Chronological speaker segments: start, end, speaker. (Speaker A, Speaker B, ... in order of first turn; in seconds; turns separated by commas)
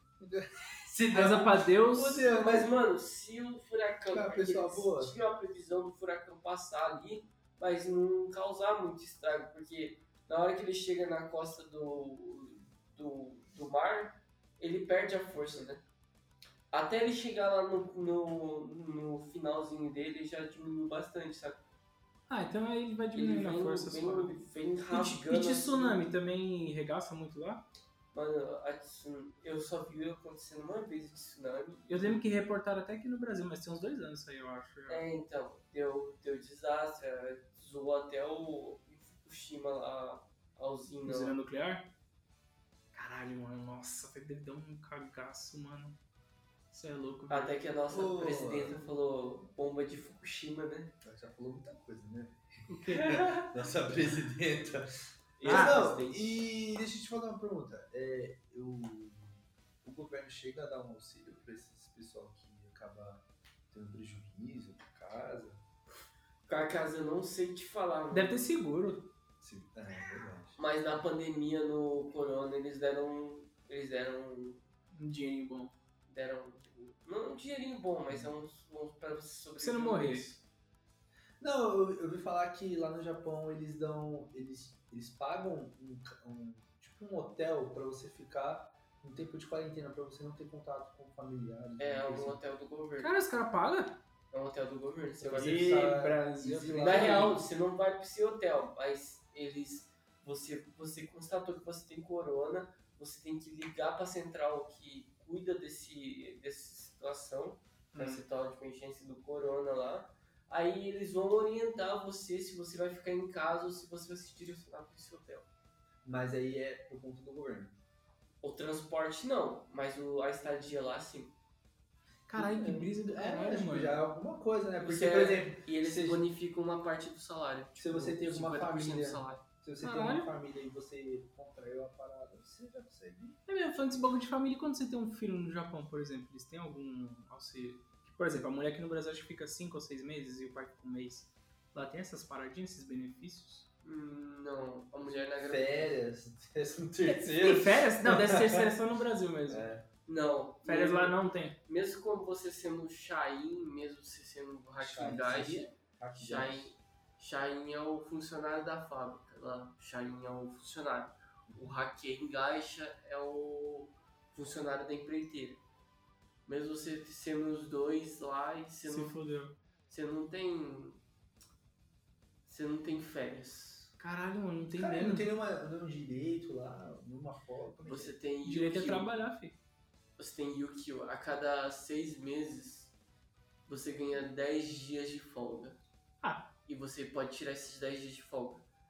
Speaker A: 0.2-2.8, Speaker B: 1.1-2.3, Speaker C: 2.0-15.8, Speaker A: 4.1-5.1, Speaker C: 16.7-21.6, Speaker B: 22.3-27.6, Speaker C: 23.1-26.0, Speaker C: 28.1-32.2, Speaker B: 31.9-35.0, Speaker C: 34.9-41.4, Speaker B: 41.0-41.9, Speaker B: 42.9-46.0, Speaker B: 46.7-47.6, Speaker C: 47.3-50.9, Speaker A: 47.9-48.8, Speaker A: 51.0-54.9, Speaker B: 52.7-53.5, Speaker C: 55.4-56.4, Speaker A: 55.4-65.6, Speaker B: 55.5-55.8, Speaker C: 66.5-68.4, Speaker B: 68.1-69.1, Speaker A: 69.4-70.6, Speaker C: 70.6-74.6, Speaker B: 74.9-75.7, Speaker C: 76.1-80.4, Speaker B: 79.6-80.3, Speaker A: 81.4-92.4, Speaker C: 91.8-93.1, Speaker B: 93.0-94.0, Speaker C: 94.3-95.7, Speaker A: 95.2-97.4, Speaker B: 95.4-97.4, Speaker C: 96.8-115.5, Speaker B: 107.9-108.2, Speaker A: 116.0-117.7, Speaker C: 118.4-121.3, Speaker B: 122.3-124.0, Speaker A: 122.3-126.2, Speaker C: 124.8-129.4, Speaker A: 127.8-133.4, Speaker B: 129.8-130.3, Speaker B: 133.5-143.7, Speaker C: 143.8-146.0, Speaker A: 145.4-148.7, Speaker B: 147.1-149.7, Speaker A: 149.5-149.9, Speaker C: 150.1-165.6, Speaker B: 150.7-151.6, Speaker A: 154.8-156.7, Speaker A: 161.5-161.8, Speaker C: 166.5-169.2, Speaker B: 168.8-169.6, Speaker C: 169.9-171.0, Speaker C: 172.5-173.9, Speaker B: 174.0-175.3, Speaker A: 174.8-178.2, Speaker C: 177.8-179.1, Speaker B: 178.4-179.6, Speaker C: 180.2-182.9, Speaker C: 183.7-185.8, Speaker B: 186.2-186.5, Speaker C: 186.7-188.7